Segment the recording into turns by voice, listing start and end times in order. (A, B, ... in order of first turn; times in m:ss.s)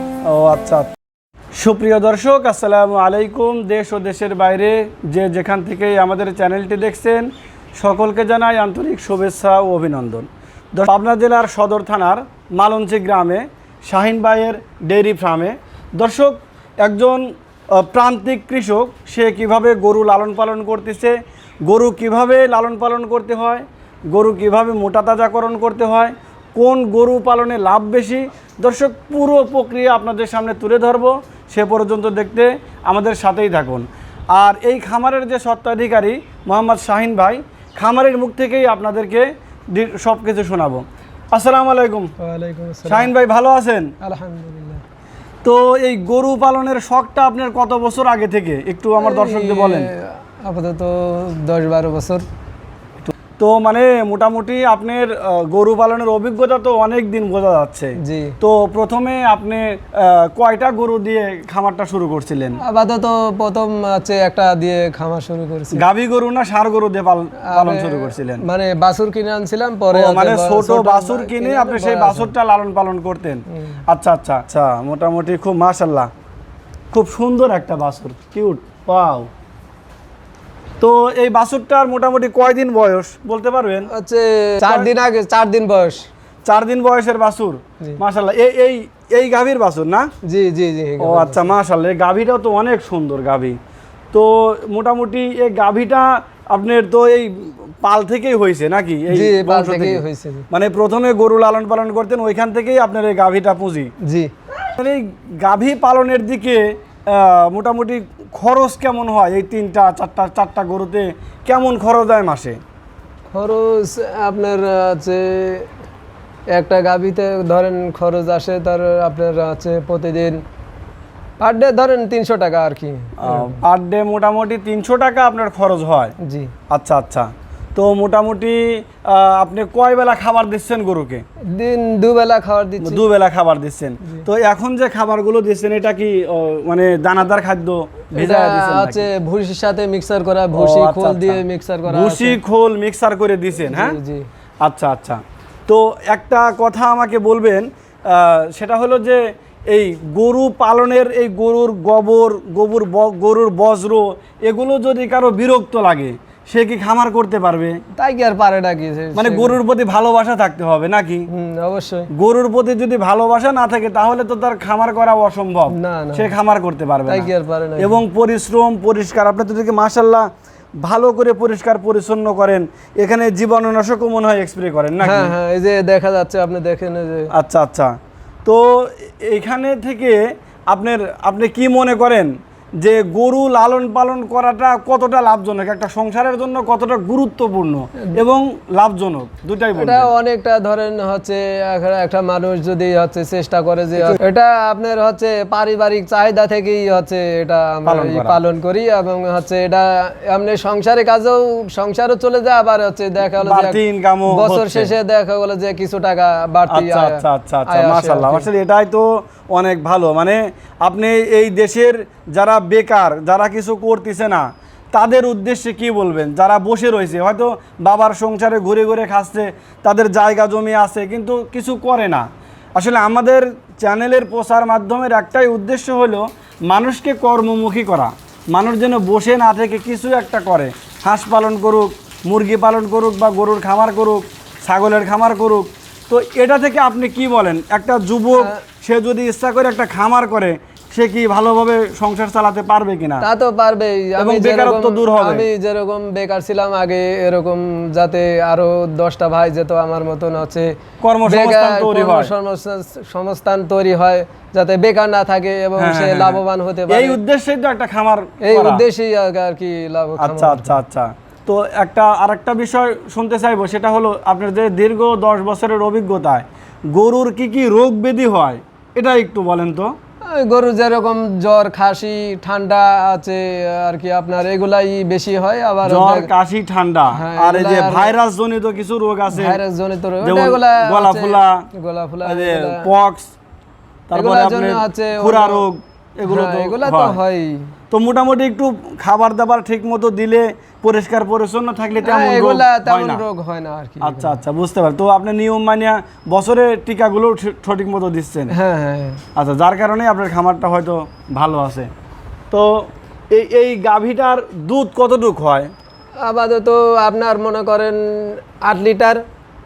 0:00.2-0:00.9 A
0:01.6-0:42.1 A
0:42.2-0:43.1 B
0:42.9-0:43.9 A
0:44.0-0:44.8 B
0:45.4-0:49.9 A
0:49.0-0:52.2 B
0:53.0-1:02.6 A
0:58.0-0:58.4 B
1:02.6-1:05.8 B
1:05.7-1:08.4 A
1:07.5-1:12.3 B
1:09.9-1:16.1 A
1:16.9-1:19.3 A
1:20.8-1:23.9 A
1:23.9-1:26.1 B
1:24.6-1:24.9 A
1:26.4-1:30.1 A
1:30.2-1:31.5 B
1:31.0-1:33.6 A
1:34.1-1:43.9 A
1:39.1-1:40.5 B
1:44.0-1:44.3 B
1:44.8-1:52.6 A
1:53.3-1:55.7 B
1:56.5-2:00.4 B
2:01.4-2:03.6 B
2:03.2-2:06.1 A
2:06.2-2:06.5 B
2:06.7-2:11.2 A
2:11.5-2:13.0 B
2:12.8-2:19.0 A
2:18.1-2:22.4 B
2:20.5-2:24.0 A
2:23.6-2:24.2 B
2:24.6-2:37.8 A
2:38.0-2:39.6 B
2:39.1-2:41.3 A
2:41.3-2:42.1 B
2:42.1-2:50.3 A
2:45.8-2:46.3 B
2:47.1-2:48.0 B
2:50.8-2:55.3 A
2:55.0-2:57.3 B
2:57.3-3:10.1 A
3:09.7-3:28.5 B
3:17.8-3:18.4 A
3:23.4-3:24.9 A
3:26.7-4:03.3 A
4:03.2-4:10.7 B
4:04.2-4:05.5 A
4:11.0-4:12.3 A
4:11.2-4:17.2 B
4:15.8-4:18.8 A
4:18.4-4:20.8 B
4:20.2-4:29.9 A
4:30.3-4:36.3 B
4:35.8-4:39.6 A
4:37.1-4:38.2 B
4:39.3-4:42.9 B
4:40.2-4:41.7 A
4:42.2-4:43.3 A
4:44.1-4:47.2 A
4:44.1-4:45.6 B
4:46.3-4:47.7 B
4:47.9-4:53.2 A
4:52.0-4:54.4 B
4:54.0-4:58.5 A
4:58.5-4:59.2 B
4:59.4-5:01.9 A
5:02.5-5:05.7 A
5:06.2-5:09.2 B